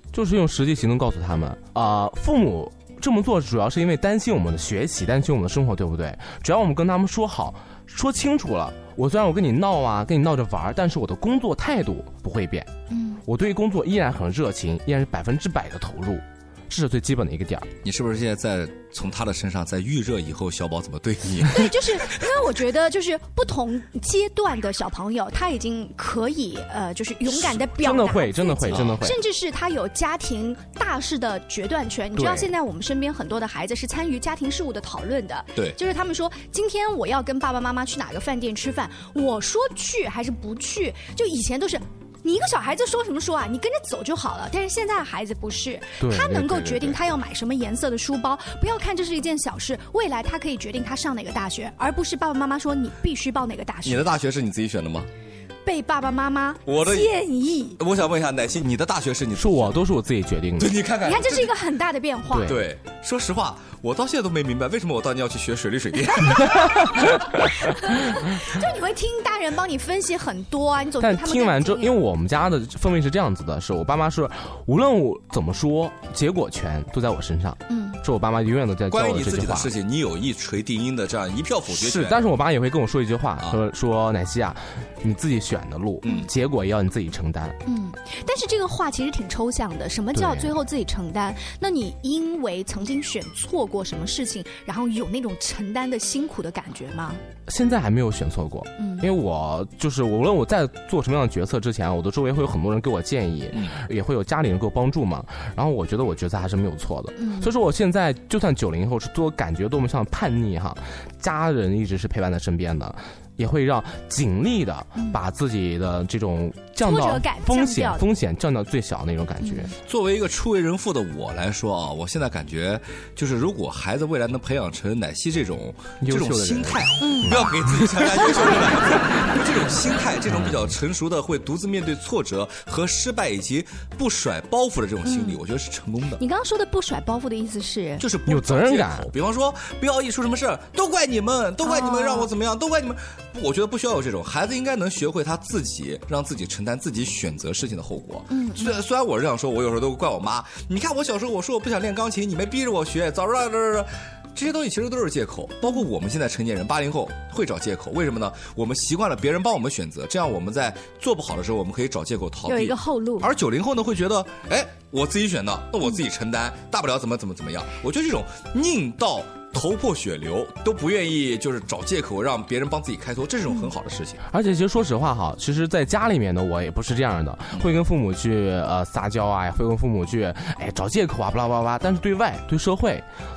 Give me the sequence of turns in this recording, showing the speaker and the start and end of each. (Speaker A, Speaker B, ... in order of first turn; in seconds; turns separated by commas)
Speaker A: 0.1-12.7, Speaker B: 12.9-13.2, Speaker A: 13.2-17.7, Speaker C: 17.8-22.3, Speaker B: 21.5-54.1, Speaker A: 27.8-29.2, Speaker C: 28.7-29.0, Speaker A: 32.1-32.5, Speaker A: 46.0-47.0, Speaker C: 53.8-55.1, Speaker B: 55.6-57.8, Speaker C: 56.6-57.1, Speaker C: 57.8-59.8, Speaker A: 59.4-60.8, Speaker C: 60.6-61.5, Speaker B: 61.0-62.6, Speaker A: 62.3-62.6, Speaker C: 62.4-66.8, Speaker B: 66.5-67.0, Speaker A: 66.5-66.8, Speaker B: 67.8-72.0, Speaker A: 71.0-79.7, Speaker B: 77.7-78.0, Speaker C: 78.9-82.2, Speaker A: 81.7-87.6, Speaker C: 86.0-86.3, Speaker B: 87.7-97.2, Speaker A: 90.1-90.5, Speaker A: 97.5-119.7, Speaker B: 98.8-99.1, Speaker C: 103.5-103.8, Speaker B: 107.2-107.5, Speaker B: 116.8-118.0, Speaker B: 119.4-119.7, Speaker C: 119.8-136.2, Speaker A: 126.0-128.4, Speaker B: 127.0-127.5, Speaker B: 128.2-128.7, Speaker A: 130.3-130.6, Speaker B: 135.0-135.4, Speaker B: 136.2-138.1, Speaker C: 138.0-174.2, Speaker A: 138.3-139.1, Speaker B: 141.6-142.3, Speaker B: 148.3-148.8, Speaker B: 162.4-163.3, Speaker A: 174.3-183.0